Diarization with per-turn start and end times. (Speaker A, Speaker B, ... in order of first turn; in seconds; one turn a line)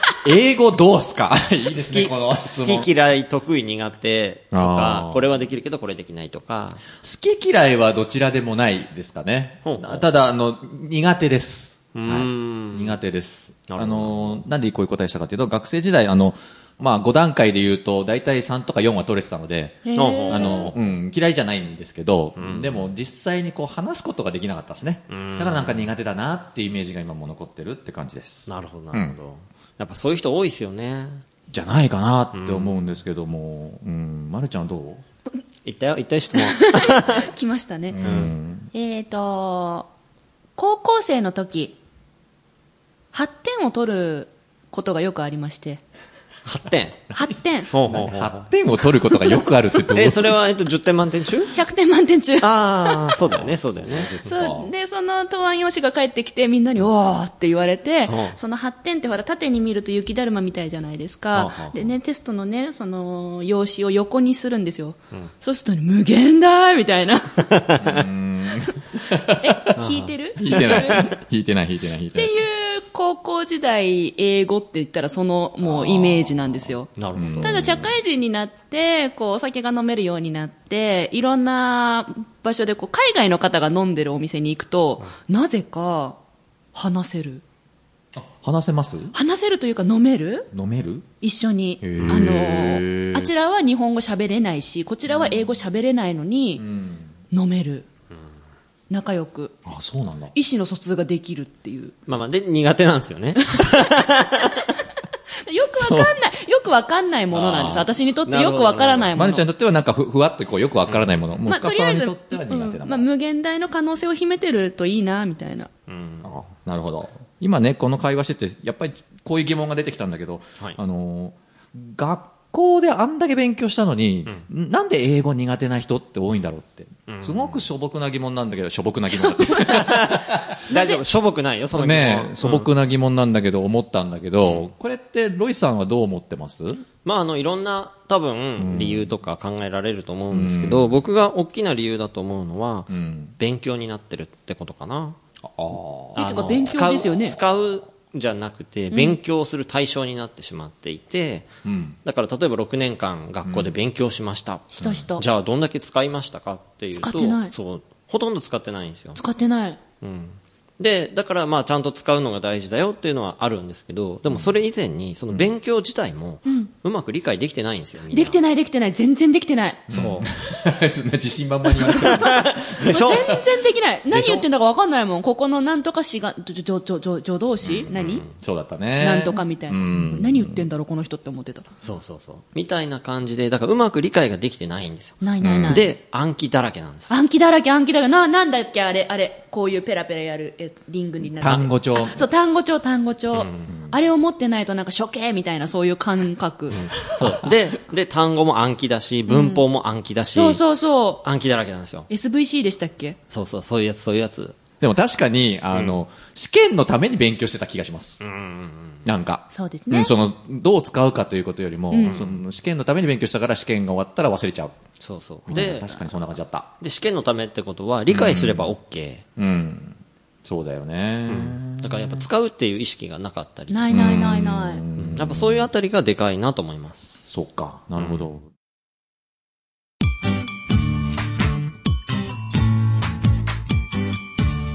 Speaker A: 0.2-2.9
Speaker B: 1.7-6.8
Speaker A: 4.5-5.2
Speaker A: 7.0-29.1
Speaker B: 9.6-10.0
Speaker B: 11.9-13.0
Speaker B: 13.7-14.4
Speaker C: 19.8-20.7
Speaker B: 19.9-20.7
Speaker B: 22.4-22.9
Speaker B: 25.1-25.9
Speaker B: 28.5-31.2
Speaker A: 31.5-35.0
Speaker B: 32.3-32.7
Speaker B: 35.6-37.3
Speaker C: 36.4-38.0
Speaker A: 37.9-38.7
Speaker B: 38.0-38.3
Speaker C: 38.7-39.9
Speaker C: 40.6-41.8
Speaker C: 43.1-45.8
Speaker B: 46.5-47.0
Speaker C: 47.1-47.7
Speaker B: 47.7-48.4
Speaker A: 47.8-50.4
Speaker B: 49.9-51.5
Speaker C: 51.5-53.2
Speaker B: 52.4-54.2
Speaker A: 53.3-54.7
Speaker C: 54.2-67.7
Speaker B: 58.1-58.4
Speaker B: 61.3-61.8
Speaker B: 67.6-68.0
Speaker A: 67.8-69.8
Speaker C: 69.4-71.1
Speaker B: 69.8-71.0
Speaker A: 70.4-72.4
Speaker C: 72.1-76.9
Speaker A: 75.7-76.2
Speaker B: 76.0-76.3
Speaker B: 76.9-77.7
Speaker A: 77.1-77.9
Speaker C: 77.4-86.2
Speaker C: 86.7-87.4
Speaker A: 88.1-89.1
Speaker C: 89.1-90.5
Speaker A: 90.5-91.1
Speaker C: 91.2-96.6
Speaker A: 91.8-93.3
Speaker B: 92.0-92.3
Speaker A: 96.6-97.1
Speaker C: 97.3-97.8
Speaker C: 98.9-99.5
Speaker A: 99.7-100.3
Speaker C: 100.3-101.9
Speaker B: 102.1-104.6
Speaker C: 103.4-104.7
Speaker C: 105.4-109.4
Speaker A: 105.7-106.1
Speaker A: 107.3-107.9
Speaker B: 107.4-109.1
Speaker A: 109.1-113.0
Speaker C: 111.5-115.7
Speaker B: 115.9-116.3
Speaker A: 116.2-130.6
Speaker B: 127.1-127.6
Speaker C: 129.1-130.1
Speaker B: 129.7-132.7
Speaker C: 130.7-131.1
Speaker A: 131.7-136.8
Speaker B: 134.4-134.7
Speaker B: 137.0-145.2
Speaker A: 138.6-139.1
Speaker A: 140.3-140.9
Speaker A: 142.9-143.3
Speaker A: 145.4-146.7
Speaker B: 146.2-151.5
Speaker C: 146.2-147.4
Speaker C: 148.9-149.2
Speaker A: 151.6-152.0
Speaker B: 152.0-159.2
Speaker A: 153.4-153.7
Speaker C: 154.8-155.2
Speaker C: 156.9-157.5
Speaker C: 159.2-159.8
Speaker B: 160.0-168.4
Speaker C: 166.4-166.7
Speaker C: 168.1-169.8
Speaker B: 169.9-170.3
Speaker A: 169.9-173.4
Speaker C: 171.7-178.2
Speaker B: 172.2-173.3
Speaker B: 174.1-174.4
Speaker B: 177.8-178.3
Speaker A: 178.2-180.7
Speaker C: 179.0-181.7
Speaker B: 181.8-187.1
Speaker C: 185.2-185.8
Speaker A: 185.4-185.8
Speaker C: 187.1-196.8
Speaker A: 191.4-192.2
Speaker B: 193.3-193.7
Speaker A: 193.7-194.0
Speaker B: 196.7-200.6
Speaker A: 197.1-197.6
Speaker C: 199.3-199.7
Speaker C: 200.3-201.2
Speaker B: 201.2-202.1
Speaker C: 202.1-203.2
Speaker B: 203.3-204.6
Speaker A: 204.8-208.2
Speaker B: 208.2-209.1
Speaker A: 209.0-214.8
Speaker C: 209.5-210.1
Speaker C: 211.9-212.2
Speaker B: 212.0-212.4
Speaker B: 215.0-215.9
Speaker A: 215.5-216.7
Speaker B: 216.8-219.2
Speaker A: 218.1-218.7
Speaker A: 219.4-222.2
Speaker B: 221.3-224.3
Speaker C: 223.7-224.8
Speaker A: 223.9-225.7
Speaker B: 224.9-227.3
Speaker A: 227.3-228.5